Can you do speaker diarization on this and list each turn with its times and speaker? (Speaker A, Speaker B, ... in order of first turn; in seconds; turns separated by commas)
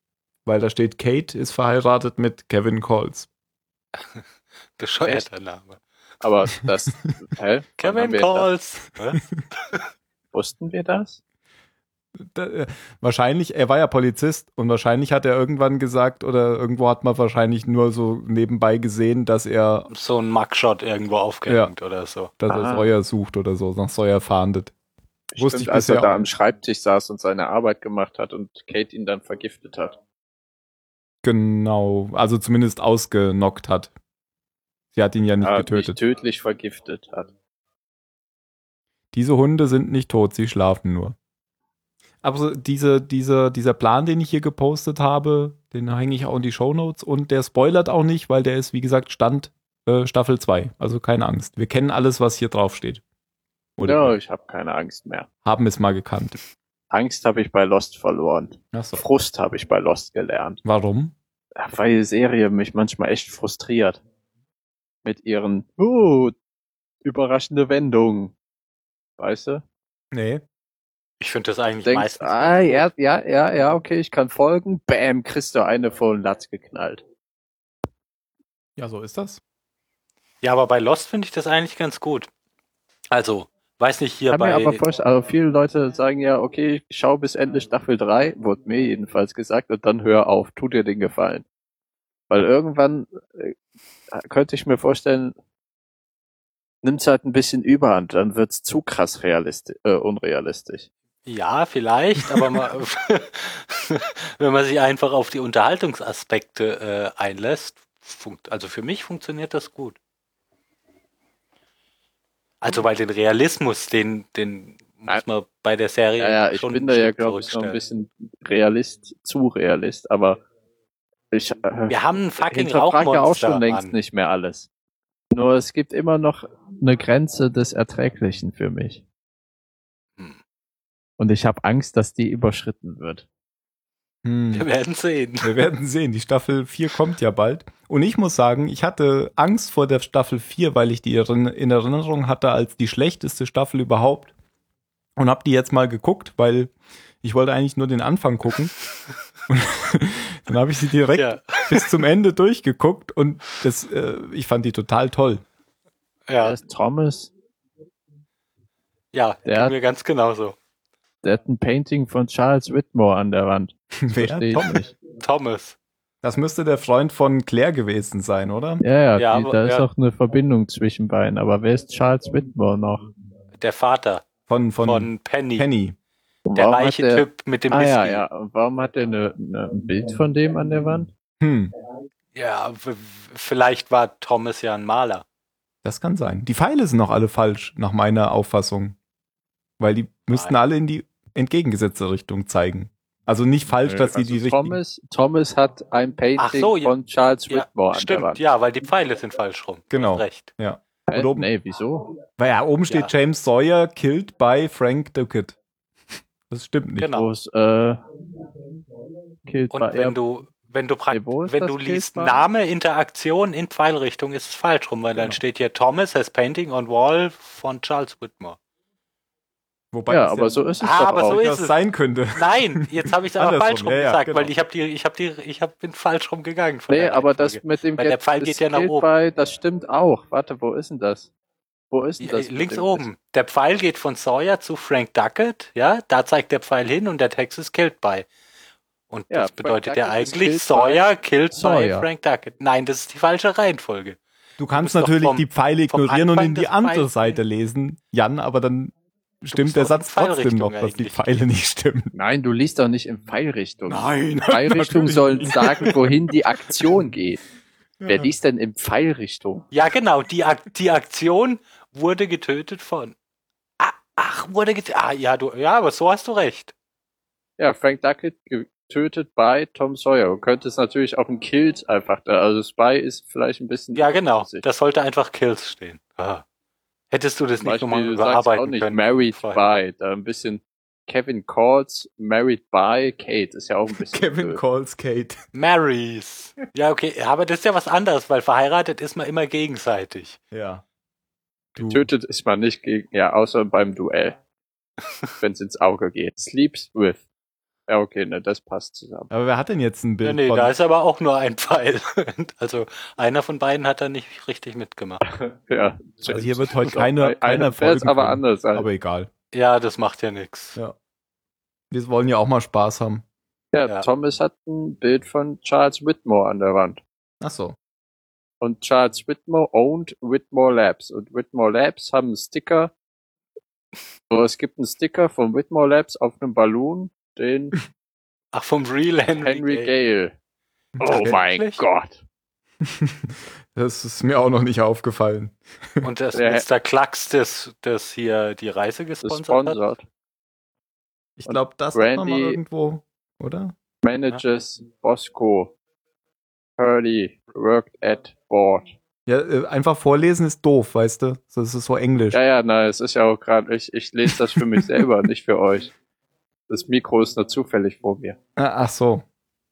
Speaker A: 0.5-3.3, Speaker B: 4.8-5.8, Speaker C: 6.2-8.5, Speaker B: 7.8-9.8, Speaker C: 10.3-11.2, Speaker A: 12.2-19.9, Speaker B: 19.9-22.3, Speaker A: 21.5-21.7, Speaker A: 22.4-24.7, Speaker C: 22.5-22.9, Speaker C: 25.3-30.0, Speaker A: 25.4-26.2, Speaker A: 31.2-33.9, Speaker A: 34.9-36.0, Speaker C: 35.4-37.3, Speaker A: 39.1-41.1, Speaker A: 42.2-53.0, Speaker A: 53.8-54.1, Speaker C: 53.8-55.3, Speaker A: 55.4-56.4, Speaker C: 56.9-60.6, Speaker A: 58.7-59.0, Speaker A: 60.6-61.1, Speaker C: 61.6-64.0, Speaker C: 65.0-66.3, Speaker C: 67.0-68.3, Speaker C: 69.2-69.6, Speaker A: 70.1-70.4, Speaker B: 71.2-72.9, Speaker C: 71.8-77.0, Speaker A: 78.8-79.4, Speaker B: 80.4-82.3, Speaker B: 83.1-84.8, Speaker C: 84.3-91.4, Speaker C: 92.3-93.5, Speaker C: 94.1-95.3, Speaker C: 96.8-100.9, Speaker B: 101.2-110.0, Speaker B: 112.6-117.8, Speaker C: 116.2-120.4, Speaker C: 121.3-124.7, Speaker B: 121.9-123.9, Speaker C: 125.3-129.0, Speaker C: 131.2-133.2, Speaker A: 134.2-134.7, Speaker B: 134.5-135.6, Speaker A: 135.4-144.3, Speaker A: 145.2-148.7, Speaker A: 149.5-155.4, Speaker B: 151.1-151.9, Speaker B: 156.3-156.6, Speaker C: 156.4-157.3, Speaker B: 159.1-160.6, Speaker C: 159.4-159.7, Speaker C: 161.2-164.9, Speaker A: 164.0-164.8, Speaker B: 165.2-165.8, Speaker A: 166.2-168.8, Speaker C: 168.8-173.1, Speaker B: 169.2-169.9, Speaker B: 173.6-174.3, Speaker A: 174.5-176.0, Speaker B: 174.8-175.7, Speaker C: 176.4-181.1, Speaker B: 176.6-178.2, Speaker A: 181.4-181.7, Speaker B: 182.3-185.2, Speaker A: 185.8-188.9, Speaker A: 189.8-194.8, Speaker B: 190.3-190.6, Speaker C: 193.7-198.4, Speaker B: 196.4-196.9, Speaker B: 197.5-200.5, Speaker A: 199.9-201.5, Speaker C: 201.1-202.1, Speaker A: 202.4-205.6, Speaker A: 206.5-207.1, Speaker B: 207.0-207.3, Speaker C: 207.1-208.0, Speaker C: 209.4-210.2, Speaker B: 209.7-218.6, Speaker C: 211.1-212.4, Speaker A: 219.9-224.5, Speaker C: 220.1-221.4, Speaker B: 220.8-221.7, Speaker B: 222.3-229.1, Speaker C: 226.9-231.3, Speaker C: 231.9-233.1, Speaker B: 232.2-238.3, Speaker B: 239.1-244.2, Speaker C: 239.3-242.1, Speaker A: 244.6-252.1, Speaker B: 244.7-247.4, Speaker B: 249.5-251.4, Speaker C: 252.1-257.4, Speaker A: 253.9-256.0, Speaker A: 258.0-258.3, Speaker C: 258.1-259.6, Speaker B: 259.7-263.1, Speaker B: 263.8-266.7, Speaker C: 267.6-274.6, Speaker B: 273.9-276.4, Speaker B: 277.1-279.7, Speaker C: 277.6-284.6, Speaker A: 284.1-285.4, Speaker B: 285.5-290.4, Speaker A: 290.5-290.8, Speaker A: 291.8-292.1, Speaker C: 291.8-294.4, Speaker C: 295.4-297.2, Speaker C: 297.9-299.3, Speaker A: 299.3-300.7, Speaker B: 300.2-305.2, Speaker C: 305.4-308.9, Speaker A: 306.3-309.3, Speaker B: 309.5-310.8, Speaker A: 311.9-313.2, Speaker C: 313.7-317.0, Speaker A: 317.4-317.8, Speaker C: 318.6-322.9, Speaker C: 324.3-327.8, Speaker B: 328.5-329.9, Speaker C: 329.4-330.3, Speaker A: 331.0-331.4, Speaker C: 331.0-332.2, Speaker B: 331.1-331.8, Speaker A: 332.8-336.1, Speaker B: 336.0-339.8, Speaker C: 336.3-336.6, Speaker C: 339.2-340.0, Speaker A: 341.4-343.7, Speaker C: 341.5-342.6, Speaker C: 344.0-345.7, Speaker C: 346.8-348.9, Speaker A: 349.3-352.4, Speaker C: 352.3-355.9, Speaker C: 356.7-358.4, Speaker A: 358.6-359.2